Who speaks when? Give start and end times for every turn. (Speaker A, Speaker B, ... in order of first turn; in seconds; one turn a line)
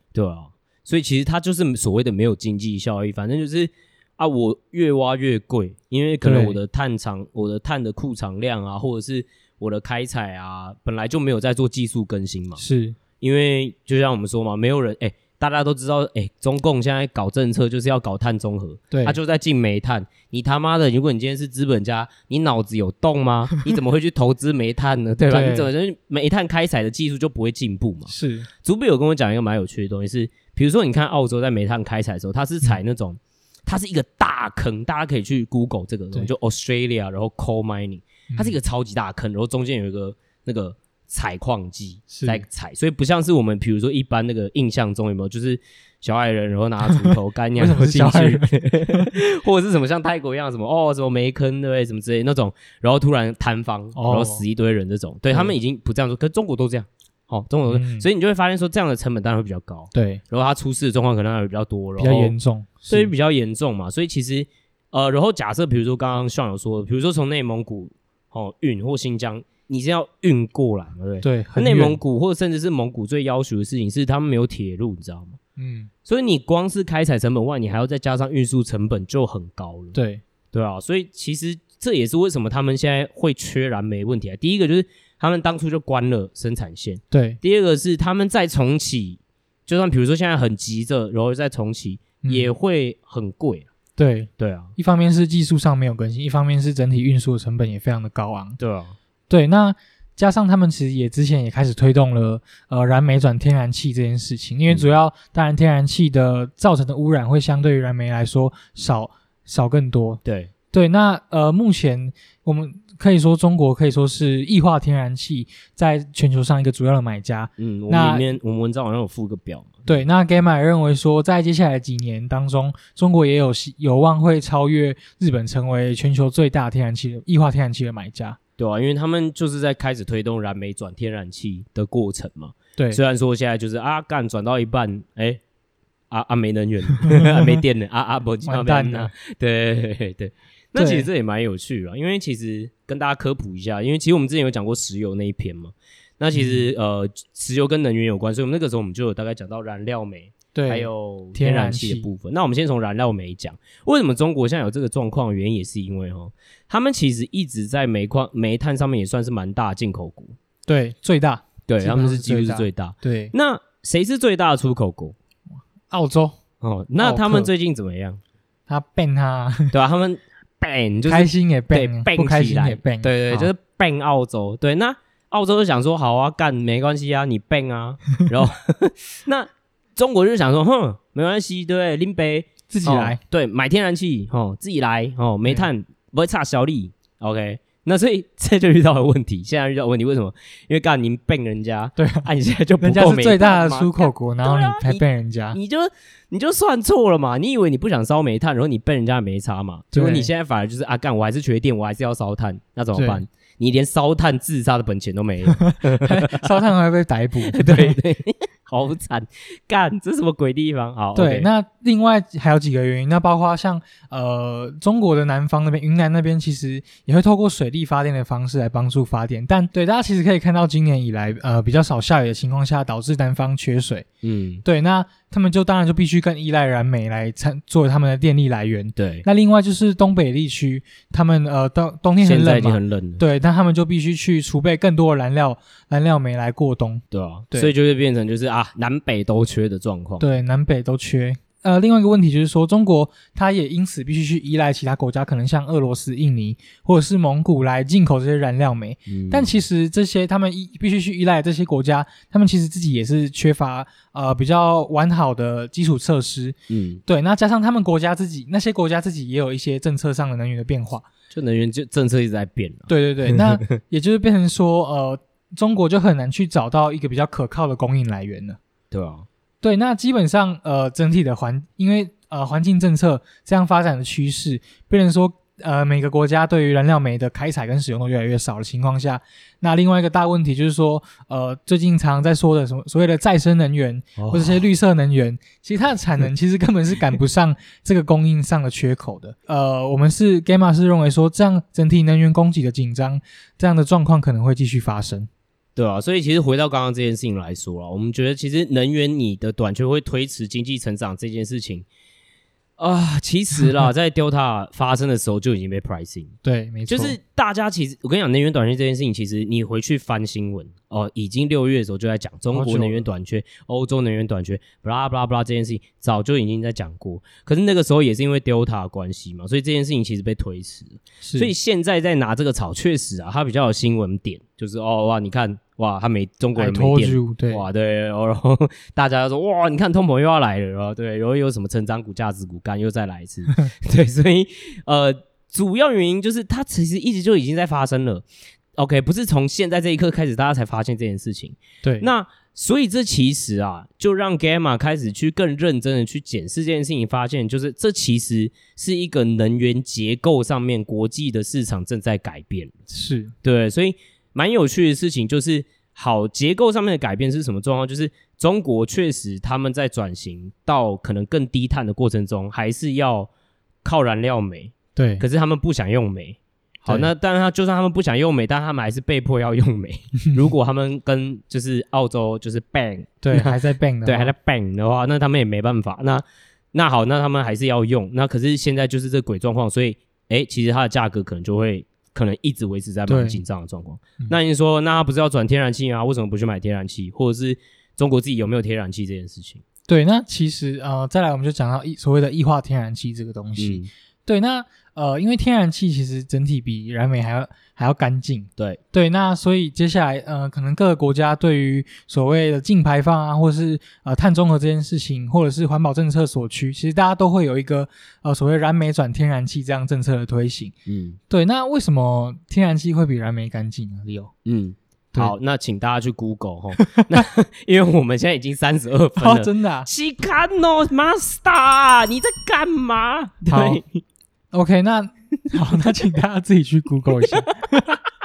Speaker A: 0.1-12.6
Speaker B: 6.2-6.6
Speaker B: 12.6-13.0
Speaker A: 13.2-62.3
Speaker B: 18.9-19.2
Speaker B: 25.3-25.7
Speaker B: 28.1-28.5
Speaker B: 38.3-38.5
Speaker B: 42.1-42.4
Speaker B: 46.9-49.1
Speaker B: 54.0-54.4
Speaker B: 57.7-58.0
Speaker B: 59.9-60.2
Speaker B: 62.0-63.1
Speaker A: 62.9-75.4
Speaker B: 71.2-72.0
Speaker B: 75.6-75.9
Speaker A: 76.0-80.0
Speaker B: 79.9-80.2
Speaker A: 80.5-93.7
Speaker B: 87.1-87.4
Speaker B: 92.2-92.5
Speaker B: 94.0-98.6
Speaker A: 94.4-94.7
Speaker A: 98.6-99.0
Speaker B: 99.3-110.2
Speaker A: 110.2-110.5
Speaker B: 110.7-118.3
Speaker A: 117.6-120.0
Speaker B: 119.8-128.4
Speaker A: 128.6-135.4
Speaker A: 136.1-160.3
Speaker B: 137.0-137.5
Speaker B: 138.4-139.1
Speaker B: 140.8-141.1
Speaker B: 146.3-146.7
Speaker B: 150.5-152.1
Speaker B: 160.7-163.3
Speaker A: 161.7-165.2
Speaker B: 165.9-166.4
Speaker A: 166.6-168.2
Speaker B: 167.0-167.5
Speaker B: 168.7-169.7
Speaker A: 169.7-206.4
Speaker B: 171.1-173.5
Speaker B: 182.7-183.2
Speaker B: 192.0-192.3
Speaker B: 192.8-195.6
Speaker B: 199.9-200.3
Speaker B: 202.9-203.2
Speaker B: 205.6-208.0
Speaker A: 207.4-211.5
Speaker B: 211.1-224.1
Speaker A: 224.2-224.6
Speaker B: 224.6-237.7
Speaker A: 228.9-229.2
Speaker A: 232.2-233.2
Speaker A: 237.1-240.2
Speaker B: 240.2-256.6
Speaker A: 249.1-249.6
Speaker A: 256.7-257.0
Speaker B: 257.1-261.1
Speaker A: 261.3-263.8
Speaker B: 262.9-268.6
Speaker A: 268.9-269.3
Speaker B: 269.6-295.3
Speaker A: 284.2-284.6
Speaker A: 295.8-301.9
Speaker A: 302.8-306.3
Speaker B: 306.4-307.2
Speaker A: 306.9-352.7
Speaker B: 312.5-313.1
Speaker B: 321.2-321.5
Speaker B: 326.6-327.6
Speaker B: 352.9-353.3
Speaker A: 353.4-363.3
Speaker A: 363.8-389.6
Speaker B: 364.9-365.2
Speaker B: 373.2-374.3
Speaker B: 383.1-383.4
Speaker B: 389.9-410.7
Speaker A: 393.6-393.9
Speaker A: 410.9-411.2
Speaker B: 411.3-414.3
Speaker A: 414.4-424.0
Speaker B: 416.8-417.1
Speaker B: 419.2-419.9
Speaker B: 423.5-423.8
Speaker B: 424.5-427.9
Speaker A: 427.3-427.6